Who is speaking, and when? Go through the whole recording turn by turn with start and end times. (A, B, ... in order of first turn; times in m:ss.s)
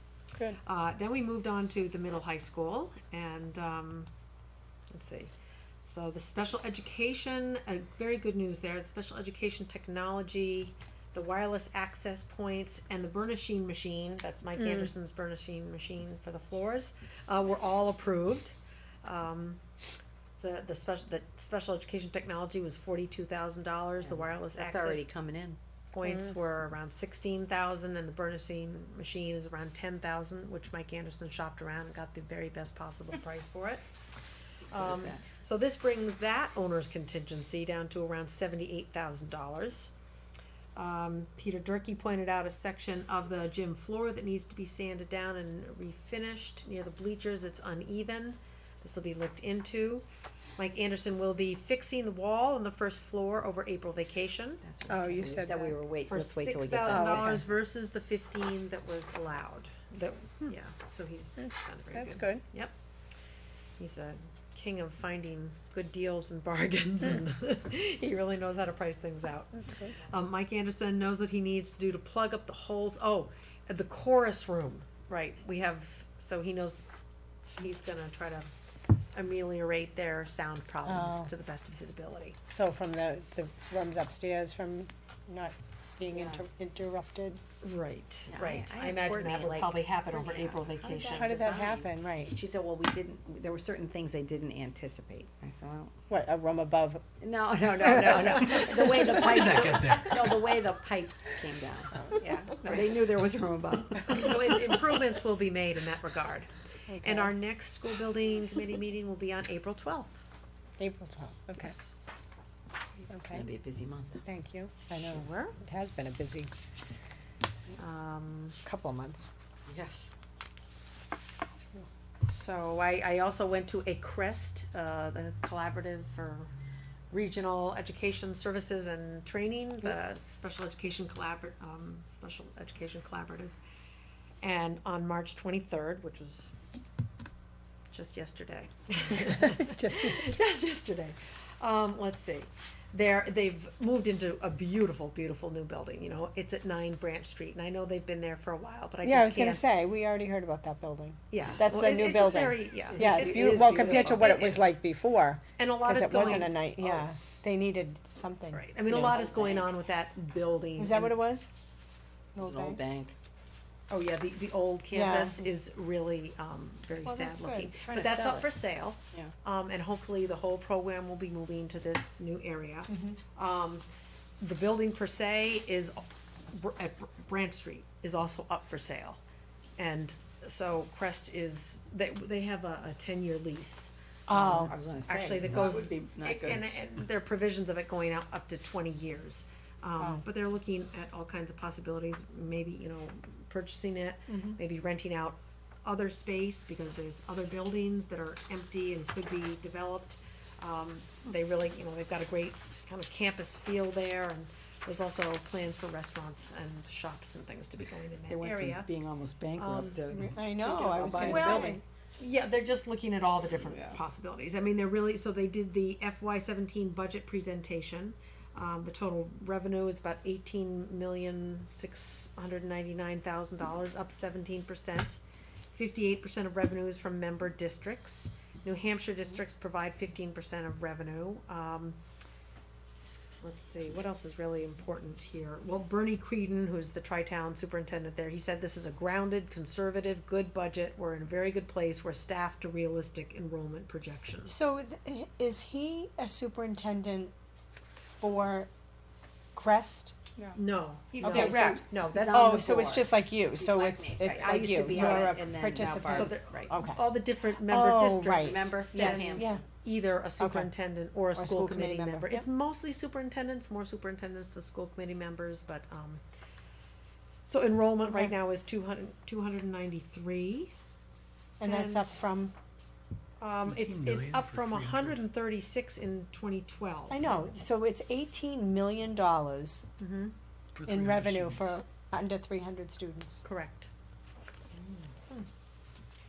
0:00.6-0:04.1 A
0:04.9-0:05.3 A
0:05.9-0:19.6 A
0:14.6-0:14.9 B
0:20.4-0:25.1 A
0:24.0-0:25.6 C
0:25.9-0:33.8 A
0:34.6-0:35.2 C
0:34.7-0:39.9 A
0:40.8-0:50.0 A
0:50.6-0:54.6 A
0:54.6-0:57.4 C
0:54.9-0:55.7 B
0:55.5-1:02.7 A
0:56.9-0:57.4 B
1:01.4-1:02.4 B
1:03.8-1:09.5 A
1:09.5-1:10.0 B
1:10.1-1:16.8 A
1:17.6-1:18.5 A
1:19.1-1:22.4 A
1:20.9-1:21.3 B
1:22.5-1:27.4 B
1:26.1-1:26.4 C
1:27.6-1:31.7 A
1:28.3-1:36.0 C
1:31.1-1:32.4 B
1:36.1-1:37.0 B
1:37.2-1:44.3 C
1:39.2-1:40.2 D
1:42.0-1:42.5 B
1:44.0-1:46.5 A
1:46.9-1:47.3 B
1:47.0-1:50.2 A
1:50.8-1:51.8 B
1:51.6-1:52.0 A
1:53.1-1:53.4 B
1:53.3-1:54.2 C
1:54.2-1:56.5 B
1:55.0-1:55.6 A
1:57.8-1:58.6 A
1:58.6-1:59.3 B
1:59.7-2:00.0 C
2:02.3-2:06.5 A
2:07.1-2:13.6 A
2:14.4-2:16.5 A
2:17.9-2:29.7 A
2:19.4-2:20.4 B
2:29.0-2:39.0 B
2:31.3-2:34.8 A
2:32.9-2:34.4 C
2:35.6-2:37.0 A
2:38.5-2:41.2 A
2:38.9-2:39.8 C
2:40.8-2:41.5 B
2:42.4-2:42.8 B
2:42.4-2:43.1 C
2:43.9-2:53.9 A
2:44.9-2:45.5 B
2:47.0-2:48.4 B
2:48.0-2:48.5 C
2:54.4-2:59.2 A
2:59.8-3:28.9 A
3:04.3-3:04.8 B
3:04.3-3:06.8 C
3:28.3-3:31.8 C
3:29.6-3:45.2 A
3:30.1-3:31.8 B
3:33.6-3:34.0 C
3:45.7-3:52.0 A
3:53.4-4:04.6 A
4:04.5-4:07.3 B
4:08.1-4:08.7 B
4:09.6-4:10.1 B
4:10.5-4:13.0 A
4:11.1-4:16.7 C
4:11.2-4:19.6 B
4:14.9-4:15.3 A
4:16.0-4:26.2 A
4:18.4-4:19.5 C
4:20.4-4:20.7 B
4:21.4-4:22.5 B
4:27.5-4:30.7 A
4:31.6-4:32.5 B
4:31.6-4:32.2 A
4:33.4-4:37.2 A
4:33.6-4:35.2 D
4:37.1-4:39.9 B
4:40.0-4:40.3 A
4:40.8-4:41.8 D
4:40.9-4:43.4 B
4:43.4-4:43.9 A